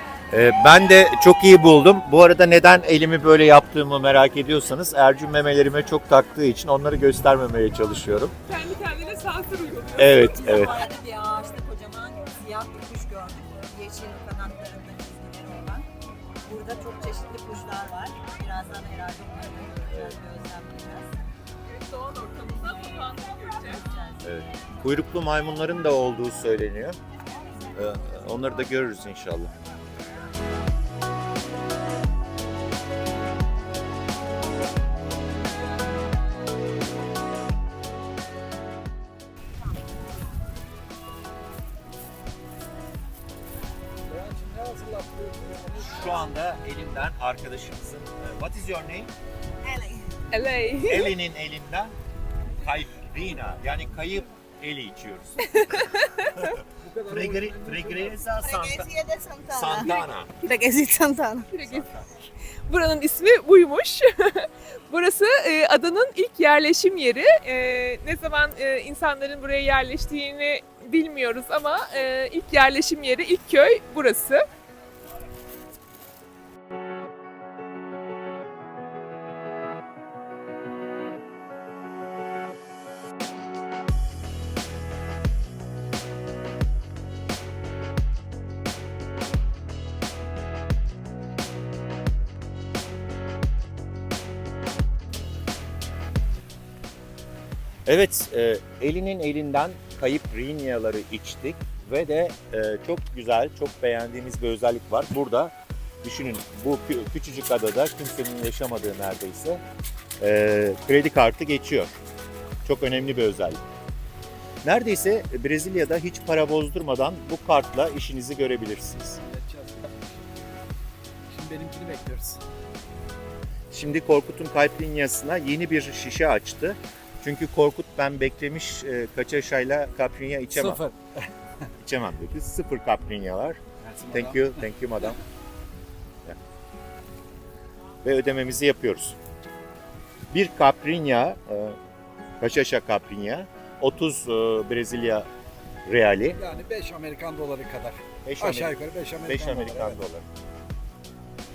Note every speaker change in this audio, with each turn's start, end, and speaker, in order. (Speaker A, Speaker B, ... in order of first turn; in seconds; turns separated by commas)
Speaker A: 0.3-8.3, Speaker B: 8.5-10.3, Speaker A: 10.0-10.8, Speaker C: 10.2-15.9, Speaker C: 16.4-21.2, Speaker A: 19.9-20.2, Speaker B: 21.8-23.9, Speaker C: 23.7-24.2, Speaker A: 24.2-26.9, Speaker A: 27.7-29.5, Speaker D: 44.1-46.2, Speaker A: 45.8-49.1, Speaker C: 49.7-49.9, Speaker B: 50.3-51.1, Speaker A: 50.9-51.9, Speaker A: 52.6-55.8, Speaker B: 55.5-56.5, Speaker D: 56.8-58.2, Speaker A: 57.1-58.9, Speaker C: 58.4-59.9, Speaker A: 59.5-60.4, Speaker C: 60.4-61.5, Speaker B: 61.5-62.0, Speaker A: 61.6-62.0, Speaker B: 62.7-74.4, Speaker A: 97.8-109.6, Speaker A: 110.2-112.0, Speaker A: 112.6-113.6, Speaker A: 114.6-119.1, Speaker D: 119.0-120.2, Speaker D: 121.3-122.4, Speaker A: 123.7-130.8, Speaker D: 130.5-131.0, Speaker A: 131.8-133.6, Speaker D: 133.8-134.6, Speaker A: 134.1-135.2, Speaker A: 138.0-139.2, Speaker A: 140.3-141.8, Speaker A: 142.4-145.3, Speaker A: 145.8-146.4, Speaker D: 146.3-150.0, Speaker A: 148.2-150.2